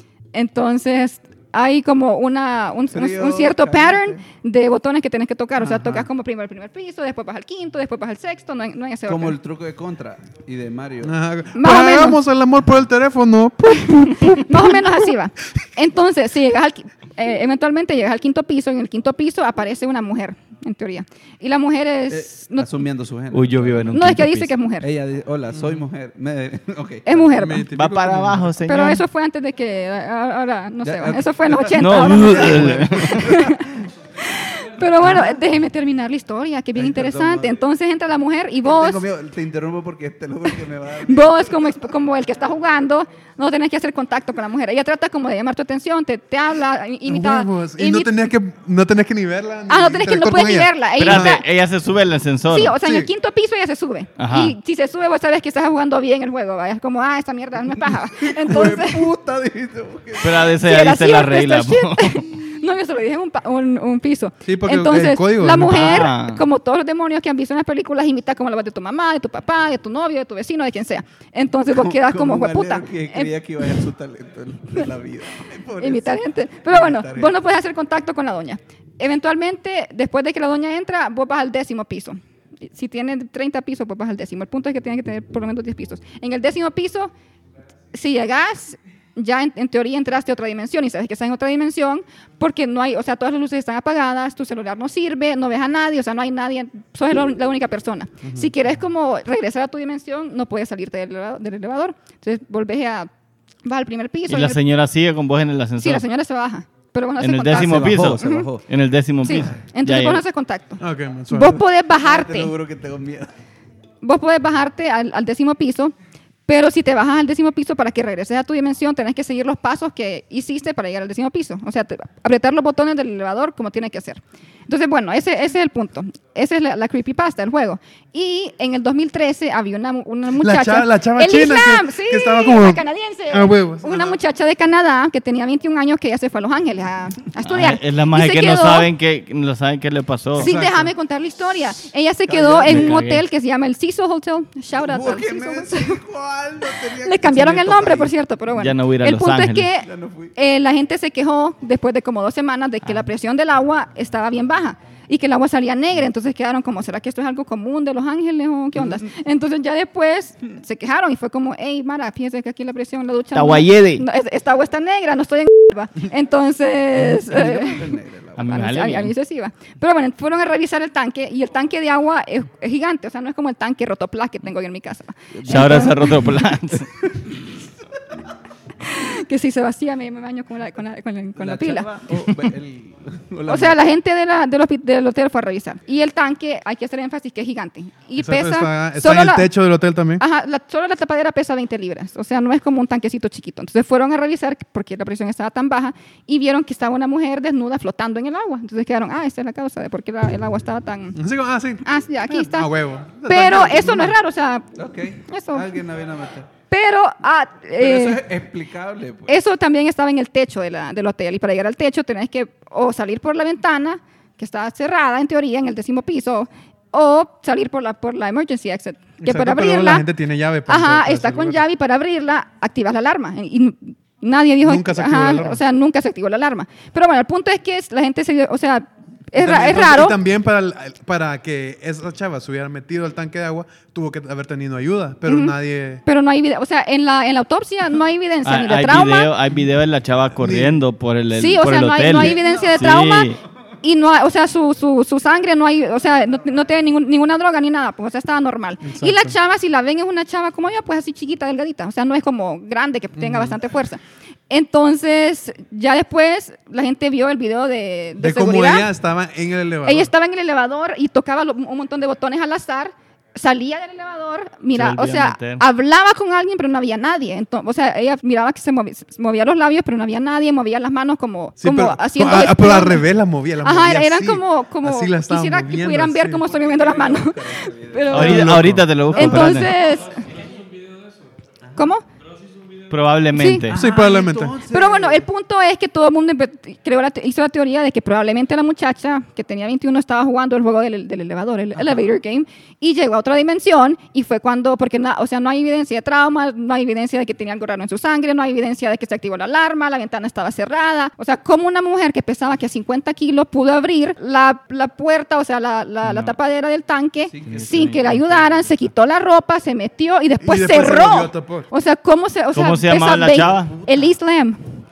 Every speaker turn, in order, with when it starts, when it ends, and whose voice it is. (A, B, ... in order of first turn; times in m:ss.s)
0:00.3-0:09.4 A
0:02.9-0:04.2 B
0:05.6-0:06.1 B
0:09.0-0:11.1 B
0:11.0-0:15.0 C
0:11.5-0:12.2 A
0:14.0-0:22.8 A
0:22.1-0:24.0 B
0:23.3-0:24.5 D
0:23.9-0:24.9 A
0:24.8-0:27.5 B
0:25.5-0:25.8 C
0:27.0-0:27.7 A
0:27.3-0:28.4 C
0:27.6-0:29.0 D
0:28.6-0:39.0 A
0:30.8-0:33.6 B
0:31.8-0:33.3 D
0:36.8-0:37.6 B
0:38.6-0:41.7 B
0:41.0-0:48.3 A
0:47.0-0:51.3 C
0:49.7-0:51.4 A
0:51.0-0:52.8 D
0:52.5-0:59.1 A
0:52.7-0:53.1 C
0:54.2-0:54.5 D
0:58.0-1:00.6 B
1:00.2-1:02.2 D
1:00.6-1:13.3 A
1:04.4-1:06.1 C
1:05.7-1:06.4 D
1:11.7-1:17.4 B
1:15.8-1:27.1 A
1:27.9-1:43.1 A
1:38.2-1:38.5 C
1:43.6-1:44.6 A
1:44.3-1:46.0 D
1:45.8-1:48.5 A
1:47.2-1:50.2 D
1:47.5-1:48.6 B
1:49.2-1:52.5 A
1:49.3-1:49.6 B
1:50.8-1:51.6 C
1:52.0-1:53.3 B
1:54.0-1:55.9 A
1:56.5-2:18.9 A
2:10.4-2:14.2 C
2:17.4-2:20.5 D
2:20.4-2:20.9 C
2:20.4-2:26.0 A
2:22.3-2:23.0 B
2:22.6-2:23.2 D
2:24.8-2:28.1 B
2:27.0-2:56.4 A
2:28.5-2:29.7 D
2:29.8-2:30.3 B
2:43.3-2:44.0 D
2:47.1-2:48.5 B
2:48.4-2:49.1 D
2:55.4-2:56.9 D
2:58.8-3:02.5 A
3:01.4-3:03.8 B
3:03.5-3:09.5 A
3:08.2-3:10.2 C
3:10.2-3:21.2 A
3:21.1-3:24.2 C
3:21.8-3:22.7 A
3:23.2-3:24.7 A
3:24.7-3:26.5 B
3:25.2-3:25.7 A
3:26.7-3:28.2 A
3:27.8-3:29.4 B
3:29.3-3:40.1 A
3:39.2-3:41.6 C
3:40.7-3:50.2 A
3:44.6-3:45.6 C
3:49.3-3:56.0 C
3:55.2-3:59.3 A
3:58.4-4:03.3 D
4:00.4-4:00.8 C
4:01.3-4:18.9 A
4:02.2-4:02.6 B
4:08.8-4:09.3 C
4:13.2-4:13.6 C
4:18.2-4:20.1 C
4:19.8-4:33.1 A
4:24.7-4:25.6 D
4:31.6-4:36.4 C
4:33.6-4:38.5 A
4:36.4-4:39.7 B
4:38.1-4:39.7 D
4:38.1-4:38.9 C
4:39.1-4:40.3 A
4:41.8-4:42.0 A
4:42.9-4:43.7 D
4:43.3-4:43.7 A
4:43.7-4:45.2 B
4:43.7-4:44.6 C
4:44.7-5:14.6 A
4:51.7-4:52.0 B
5:06.0-5:06.3 D
5:07.3-5:08.3 B
5:07.5-5:08.5 D
5:10.4-5:11.7 C
5:12.5-5:13.7 D
5:13.7-5:14.1 B